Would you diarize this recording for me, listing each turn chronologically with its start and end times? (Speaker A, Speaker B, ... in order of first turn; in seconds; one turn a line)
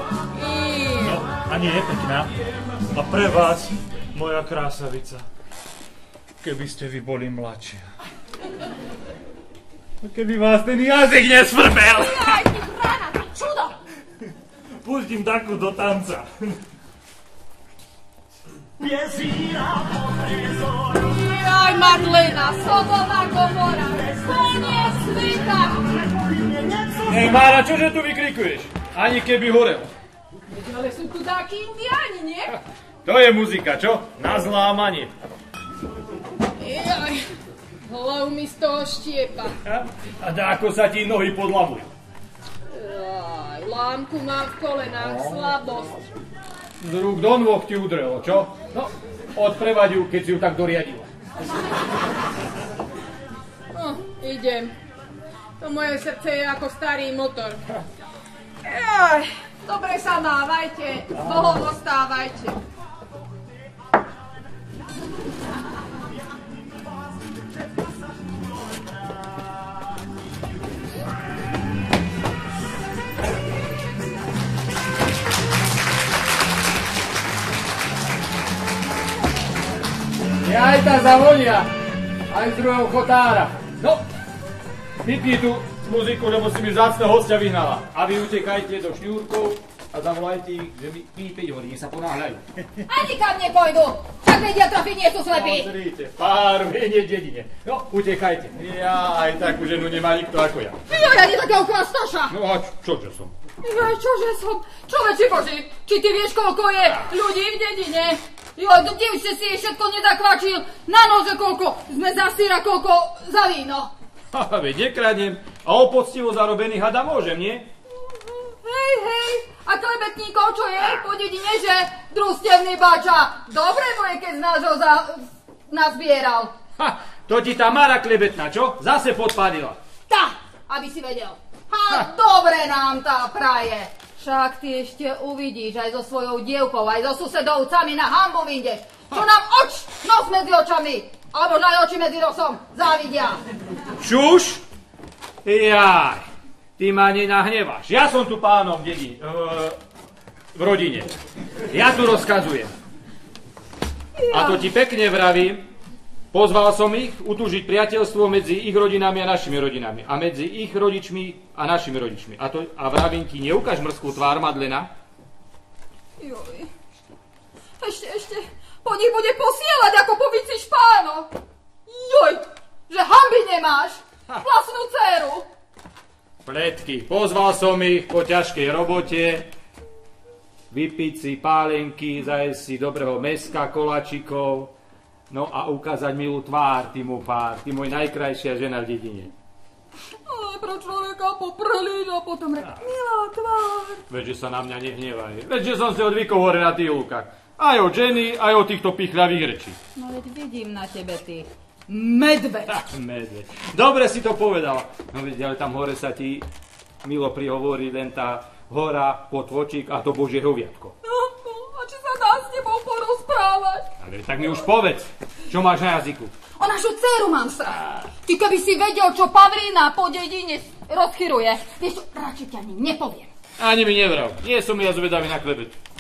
Speaker A: 0.4-1.0
Speaker B: 1.0-2.3
Speaker B: 2.9-5.2
Speaker B: 6.4-7.8
Speaker B: 10.0-12.4
Speaker B: 14.8-16.5
Speaker B: 18.8-21.0
Speaker A: 21.0-25.8
Speaker B: 26.4-27.0
Speaker C: 27.0-29.9
Speaker A: 30.5-32.5
Speaker C: 33.0-35.1
Speaker A: 36.6-37.3
Speaker A: 37.8-39.5
Speaker C: 39.6-41.9
Speaker A: 42.7-46.1
Speaker C: 46.8-51.1
Speaker A: 53.7-54.7
Speaker A: 55.6-57.6
Speaker A: 58.6-62.6
Speaker C: 80.4-81.7
Speaker C: 82.3-84.0
Speaker C: 85.0-92.4
Speaker D: 92.9-95.7
Speaker C: 95.3-100.8
Speaker D: 100.9-102.3
Speaker C: 102.3-103.3
Speaker D: 103.6-113.9
Speaker C: 114.3-117.7
Speaker D: 118.3-126.5
Speaker C: 126.8-129.8
Speaker D: 130.1-143.4
Speaker C: 144.0-144.6
Speaker C: 145.4-146.3
Speaker C: 146.8-149.8
Speaker C: 150.5-151.1
Speaker C: 151.7-152.7
Speaker D: 154.2-154.7
Speaker C: 154.3-155.7
Speaker C: 156.3-164.9
Speaker D: 166.2-166.7
Speaker D: 167.8-171.3
Speaker D: 171.9-175.5
Speaker C: 176.4-179.5
Speaker C: 180.7-184.7
Speaker C: 185.3-189.3
Speaker D: 190.2-194.0
Speaker C: 194.1-199.8
Speaker D: 199.9-202.8
Speaker C: 202.7-206.4
Speaker C: 207.0-210.9
Speaker D: 211.0-213.9
Speaker C: 214.0-216.3
Speaker D: 216.6-223.3
Speaker C: 223.6-225.8